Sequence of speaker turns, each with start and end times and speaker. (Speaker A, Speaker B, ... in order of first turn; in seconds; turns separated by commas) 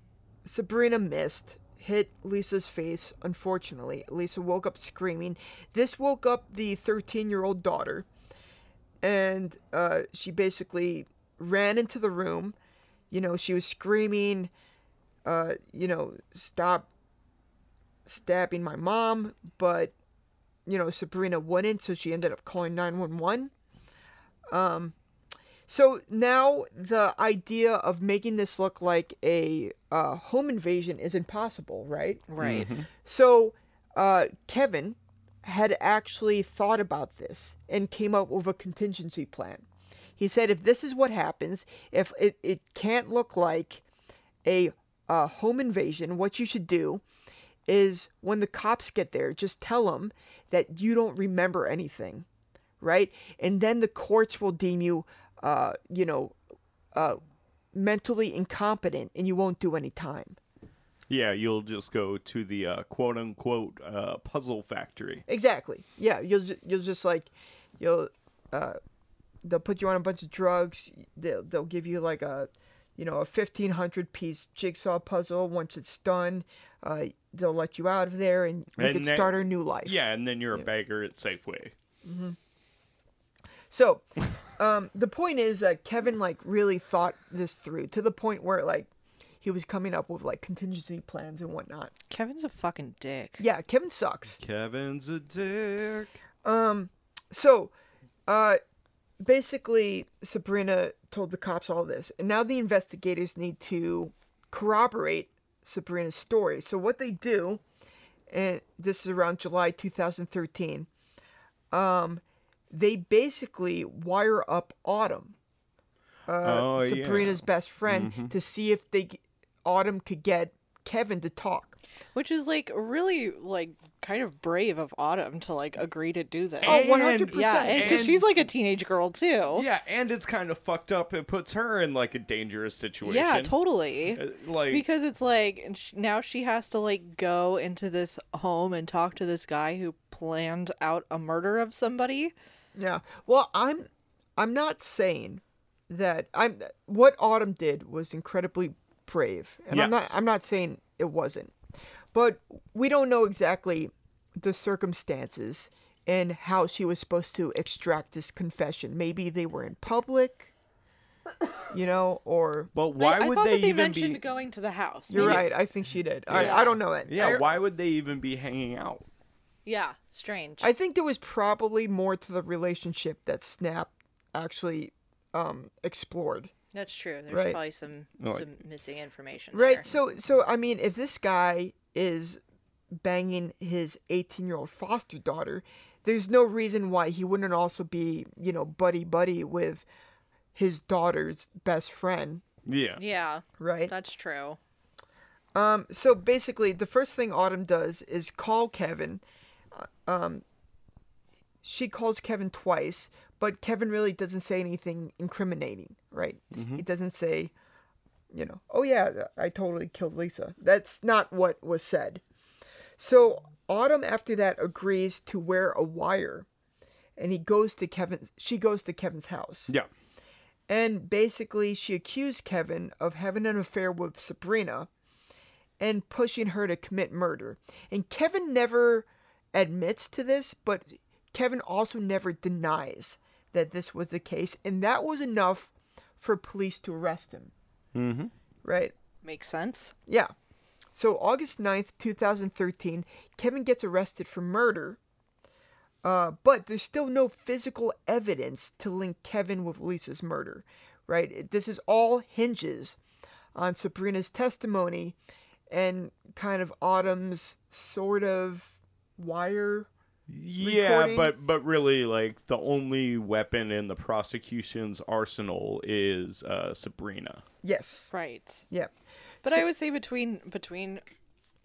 Speaker A: 0.5-8.1, Speaker A: 9.0-12.6, Speaker A: 13.1-14.5, Speaker A: 15.2-16.9, Speaker A: 18.1-19.9, Speaker A: 20.7-23.5, Speaker A: 24.5-24.9, Speaker A: 25.7-39.7, Speaker B: 32.3-32.7, Speaker C: 32.4-32.9, Speaker A: 40.2-43.8, Speaker A: 44.5-47.0, Speaker A: 47.7-52.3, Speaker A: 52.8-56.4, Speaker A: 56.9-57.2, Speaker A: 57.7-60.4, Speaker C: 61.1-65.2, Speaker A: 65.3-68.8, Speaker A: 69.4-80.7, Speaker C: 78.8-81.7, Speaker A: 82.0-82.4, Speaker A: 83.7-88.9, Speaker A: 89.4-91.9, Speaker B: 92.1-93.4, Speaker A: 93.4-94.4, Speaker C: 94.4-96.2, Speaker A: 96.4-97.7, Speaker A: 98.3-98.6, Speaker A: 99.2-107.6, Speaker A: 108.3-110.9, Speaker A: 111.7-115.4, Speaker A: 116.3-121.8, Speaker C: 116.4-118.3, Speaker B: 122.2-129.7, Speaker C: 126.6-128.4, Speaker A: 126.6-128.1, Speaker C: 129.5-133.5, Speaker B: 133.0-142.3, Speaker C: 134.1-134.8, Speaker A: 142.8-151.6, Speaker C: 149.7-150.1, Speaker A: 152.1-160.5, Speaker A: 161.7-162.7, Speaker C: 162.8-164.2, Speaker B: 163.0-165.4, Speaker A: 165.1-167.4, Speaker C: 165.2-165.5, Speaker C: 166.3-169.1, Speaker B: 166.3-167.5, Speaker B: 169.7-170.7, Speaker A: 170.6-176.5, Speaker B: 176.7-179.9, Speaker A: 177.3-177.6, Speaker C: 178.2-178.5, Speaker A: 179.5-182.4, Speaker A: 182.9-189.9, Speaker A: 190.6-192.4, Speaker C: 192.7-193.0, Speaker B: 193.0-194.6, Speaker A: 193.6-193.9, Speaker A: 195.6-200.4, Speaker A: 201.6-207.5, Speaker C: 206.5-206.8, Speaker A: 208.3-212.2, Speaker A: 213.0-216.5, Speaker A: 217.2-219.7, Speaker A: 220.7-224.9, Speaker A: 225.8-237.5, Speaker C: 237.9-238.3, Speaker A: 238.6-238.9, Speaker B: 239.2-239.9, Speaker A: 240.1-240.3, Speaker A: 240.9-245.0, Speaker A: 246.0-253.0, Speaker A: 253.6-255.2, Speaker A: 255.7-259.9, Speaker C: 260.3-267.4, Speaker A: 260.6-261.3, Speaker A: 267.6-268.1, Speaker B: 268.1-268.6, Speaker A: 268.7-269.7, Speaker B: 269.4-271.0